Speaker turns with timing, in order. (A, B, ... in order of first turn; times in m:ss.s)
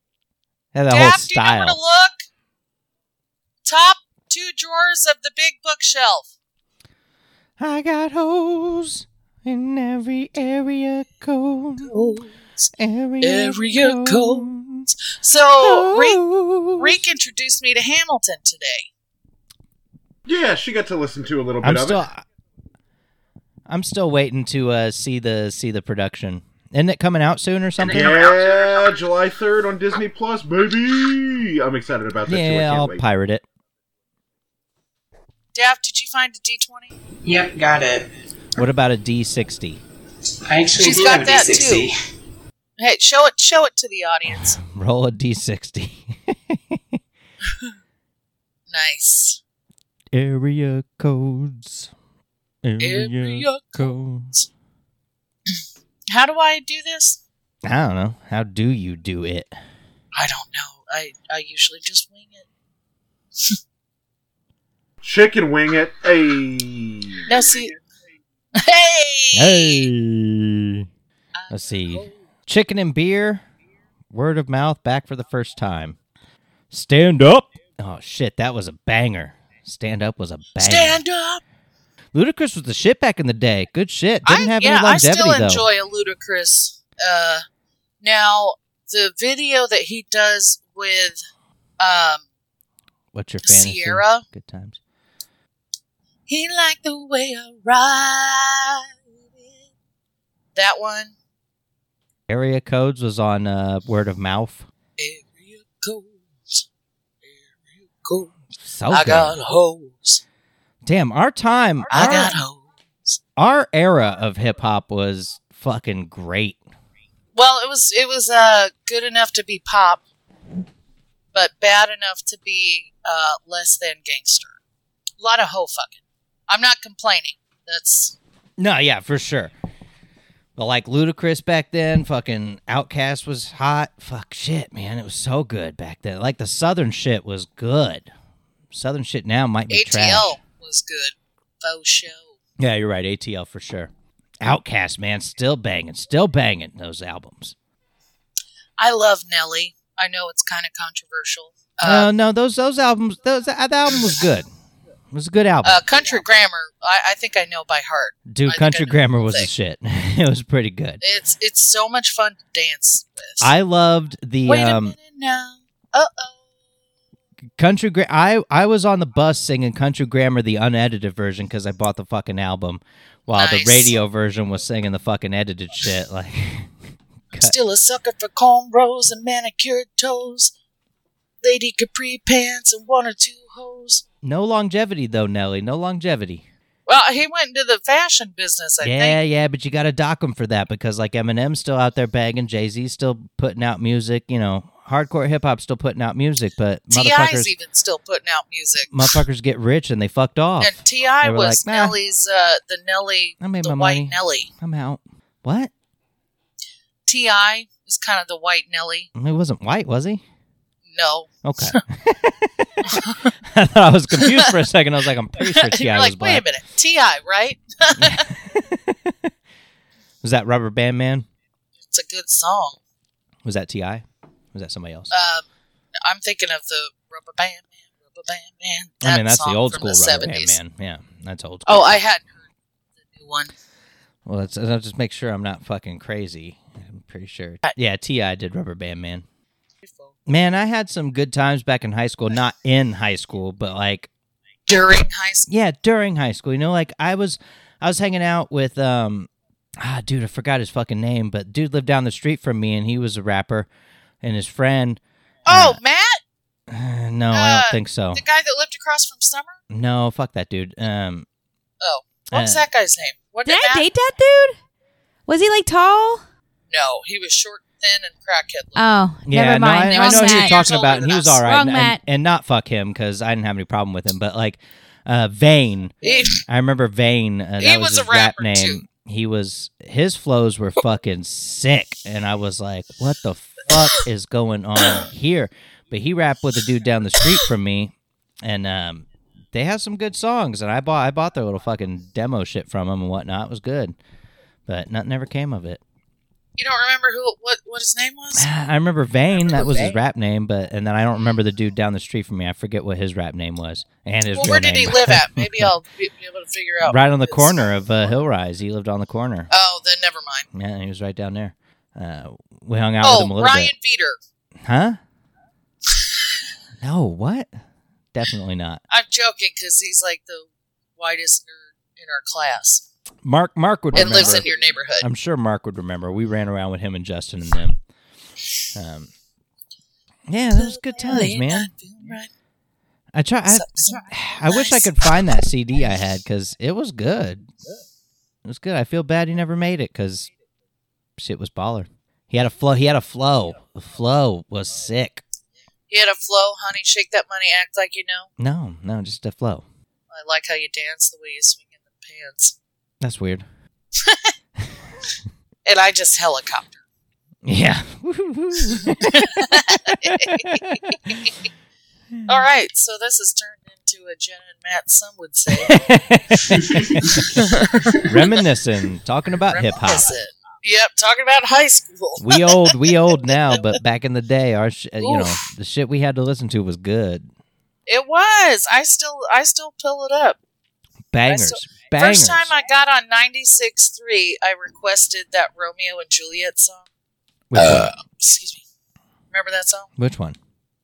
0:00.7-0:01.8 A
0:00.9-0:02.2 B
0:03.6-0:06.3 B
0:07.6-0:12.2 A
0:11.8-0:12.7 B
0:12.8-0:14.9 A
0:13.2-0:14.5 B
0:15.0-0:16.2 B
0:15.6-0:17.0 A
0:16.8-0:18.9 B
0:20.2-0:22.0 C
0:21.6-0:22.2 A
0:23.7-0:28.2 A
0:27.8-0:33.0 C
0:27.8-0:28.8 B
0:32.2-0:33.4 A
0:35.5-0:36.9 B
0:37.2-0:38.1 D
0:38.6-0:39.8 A
0:40.4-0:42.0 D
0:40.7-0:41.9 B
0:42.8-0:44.6 B
0:44.3-0:46.8 A
0:48.7-0:49.4 B
0:50.1-0:51.9 A
0:52.6-0:54.4 A
0:52.8-0:53.9 B
0:56.1-0:57.2 B
0:57.6-0:59.6 A
1:00.1-1:02.4 B
1:05.0-1:07.2 C
1:07.3-1:07.8 B
1:08.6-1:09.9 B
1:09.3-1:10.9 A
1:11.3-1:12.1 B
1:11.5-1:13.4 A
1:14.1-1:16.0 A
1:16.7-1:21.0 A
1:20.6-1:21.4 B
1:22.1-1:25.6 A
1:24.2-1:27.4 B
1:28.0-1:31.2 B
1:31.8-1:32.2 B
1:33.1-1:34.8 A
1:33.4-1:34.2 B
1:36.3-1:39.0 B
1:40.5-1:41.1 B
1:42.3-1:44.7 A
1:45.0-1:46.6 B
1:47.3-1:48.3 B
1:48.7-1:49.4 A
1:48.9-1:50.2 B
1:50.8-1:52.4 A
1:51.9-1:53.1 B
1:53.4-1:56.6 A
1:57.3-2:00.0 B
2:01.3-2:04.6 B
2:05.2-2:08.2 B
2:08.6-2:09.5 A
2:10.6-2:18.1 A
2:18.7-2:20.4 A
2:19.7-2:22.4 B
2:22.6-2:23.9 A
2:24.4-2:27.5 A
2:28.8-2:32.1 B
2:31.8-2:34.5 A
2:35.1-2:35.8 A
2:35.6-2:39.5 B
2:38.3-2:41.0 A
2:41.0-2:43.5 B
2:43.4-2:45.0 A
2:44.4-2:46.4 B
2:47.6-2:56.7 A
2:53.3-2:54.0 B
2:57.3-3:00.5 B
3:01.4-3:04.0 B
3:04.2-3:06.4 A
3:06.8-3:09.2 B
3:08.8-3:17.5 A
3:16.9-3:19.2 B
3:18.9-3:22.0 A
3:20.6-3:24.5 B
3:23.4-3:25.7 A
3:27.0-3:29.1 B
3:29.1-3:30.2 A
3:30.9-3:31.8 B
3:31.4-3:36.4 A
3:32.9-3:33.2 B
3:34.2-3:34.5 B
3:35.4-3:38.2 B
3:38.0-3:39.1 A
3:40.2-3:41.2 A
3:41.8-3:42.8 B
3:43.4-3:45.1 A
3:45.1-3:45.4 B
3:46.0-3:50.6 B
3:49.0-3:52.0 A
3:51.6-3:52.3 B
3:53.1-3:53.5 B
3:54.2-3:59.2 A
3:59.8-4:00.1 B
4:00.3-4:04.1 A
4:04.7-4:05.5 B
4:05.4-4:09.3 A
4:09.8-4:13.7 A
4:14.2-4:15.8 A
4:15.4-4:16.2 B
4:16.7-4:18.2 A
4:17.3-4:19.6 B
4:19.7-4:21.3 A
4:21.8-4:23.9 B
4:22.3-4:22.7 A
4:23.4-4:24.6 E
4:25.3-4:26.2 E
4:26.7-4:28.8 B
4:28.8-4:30.6 E
4:29.2-4:53.9 A
4:29.9-4:31.4 B
4:31.4-4:32.0 E
4:36.0-4:36.4 B
4:37.6-4:38.8 B
4:54.7-4:55.8 A
4:56.6-4:58.5 B
4:58.4-5:05.7 A
4:59.6-4:59.9 B
5:04.3-5:07.7 B
5:06.8-5:09.5 A
5:09.5-5:10.4 B
5:10.5-5:13.7 A
5:13.0-5:14.2 B
5:14.6-5:15.0 A
5:16.8-5:17.5 A
5:18.1-5:18.8 A
5:18.9-5:22.8 B
5:23.2-5:27.8 A
5:23.9-5:25.1 B
5:28.7-5:29.1 A
5:30.3-5:31.7 A
5:30.5-5:32.3 B
5:33.1-5:37.5 A
5:33.5-5:34.9 B
5:38.4-5:40.3 A
5:41.2-5:45.2 A
5:45.9-5:48.3 B
5:48.4-5:49.6 A
5:50.1-5:52.6 B
5:53.0-5:53.4 A
5:54.0-5:54.3 B
5:55.6-5:56.8 B
5:57.4-5:59.2 A
5:58.9-6:01.3 B
5:59.9-6:00.6 A
6:02.2-6:02.4 A
6:02.3-6:05.7 B
6:05.6-6:10.1 A
6:07.1-6:07.7 B
6:09.5-6:13.7 B
6:12.2-6:17.3 A
6:15.0-6:15.3 B
6:17.9-6:20.4 B
6:21.1-6:22.5 A
6:21.3-6:26.8 B
6:27.5-6:27.9 A
6:27.5-6:28.6 B
6:29.3-6:29.9 B
6:30.0-6:30.4 A